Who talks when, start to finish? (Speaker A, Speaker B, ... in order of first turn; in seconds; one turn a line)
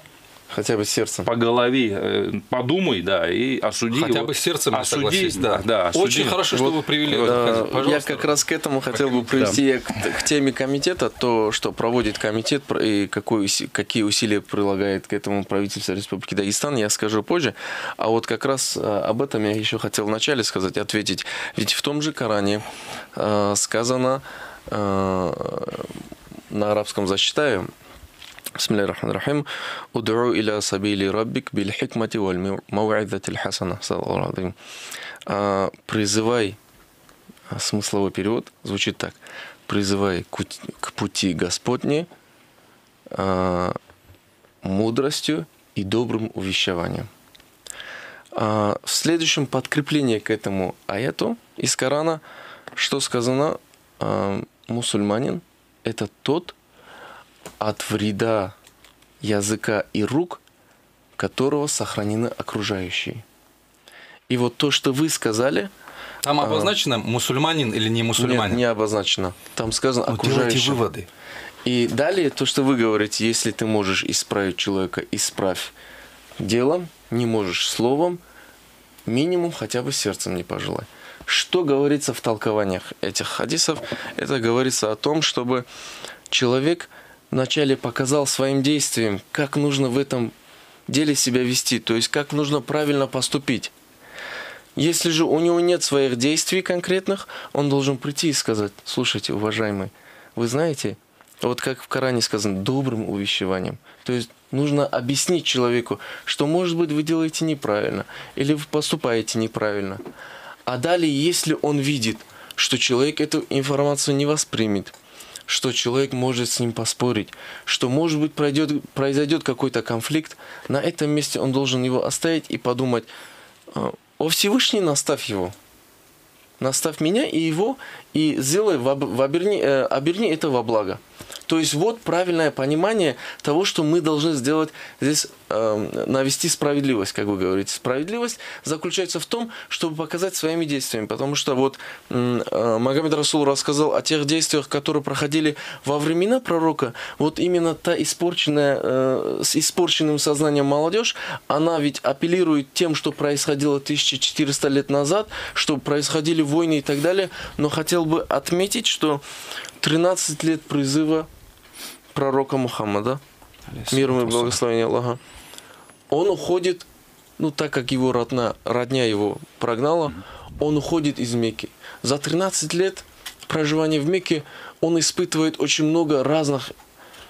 Speaker A: 0.5-1.3
Speaker B: 1.2-7.7
Speaker C: 3.9-8.3
Speaker A: 6.5-25.9
Speaker C: 8.9-9.6
Speaker A: 26.5-27.7
Speaker A: 28.6-34.6
Speaker A: 35.3-36.6
Speaker A: 37.5-42.1
Speaker A: 43.1-43.8
Speaker A: 44.6-47.1
Speaker A: 48.4-52.2
Speaker A: 52.7-56.6
Speaker A: 57.6-58.6
Speaker A: 59.2-60.4
Speaker A: 61.2-63.2
Speaker A: 64.3-65.7
Speaker C: 66.2-68.6
Speaker A: 66.4-66.7
Speaker A: 68.2-70.8
Speaker C: 70.1-71.1
Speaker A: 71.7-75.7
Speaker A: 76.4-78.2
Speaker A: 79.1-85.7
Speaker A: 86.3-90.3
Speaker A: 90.9-93.7
Speaker A: 94.8-110.0
Speaker A: 110.7-114.9
Speaker A: 115.5-123.1
Speaker A: 123.7-125.5
Speaker A: 126.6-159.2
Speaker A: 159.8-161.3
Speaker A: 162.1-163.2
Speaker C: 163.7-164.6
Speaker A: 163.9-165.2
Speaker A: 166.1-176.7